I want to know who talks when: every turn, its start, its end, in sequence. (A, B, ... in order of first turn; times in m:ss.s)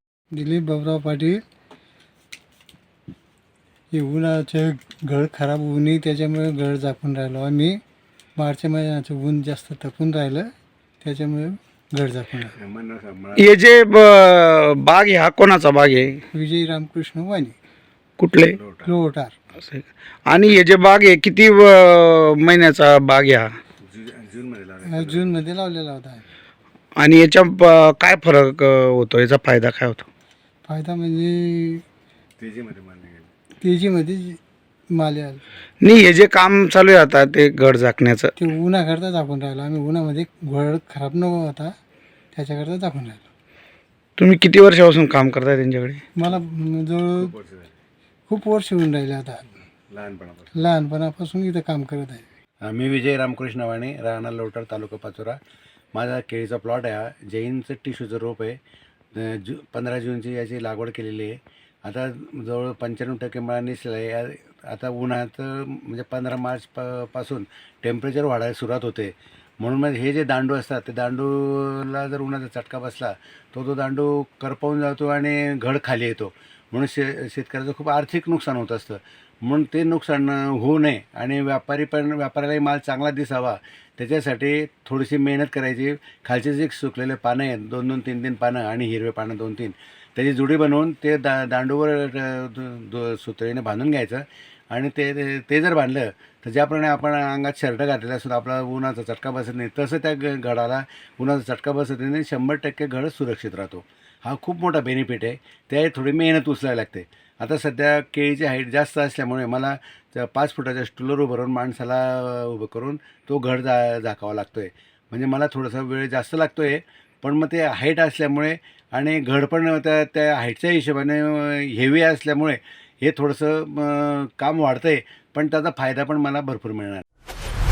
0:00.3-0:01.4 A
0:03.9-0:07.8 A
0:08.4-0:10.5 A
0:11.0-0:12.5 A
0:12.5-0:13.6 B
0:13.4-0:16.2 C
0:16.3-0:17.6 A
0:18.2-0:18.6 C
0:18.4-0:19.0 B
0:18.9-0:19.4 A
0:19.6-0:23.5 C
0:23.8-0:25.4 B
0:24.9-0:26.2 A
0:27.0-0:30.0 C
0:30.7-0:31.8 A
0:32.4-0:33.3 B
0:33.6-0:35.4 A
0:35.8-0:38.3 C
0:38.4-0:41.8 A
0:42.3-0:43.3 A
0:44.2-0:46.0 C
0:46.2-0:47.3 A
0:47.2-0:47.7 B
0:48.3-0:49.4 A
0:49.9-0:50.5 B
0:50.6-0:52.2 A
0:52.6-0:55.4 B
0:55.9-0:58.6 B
0:59.1-2:07.0 B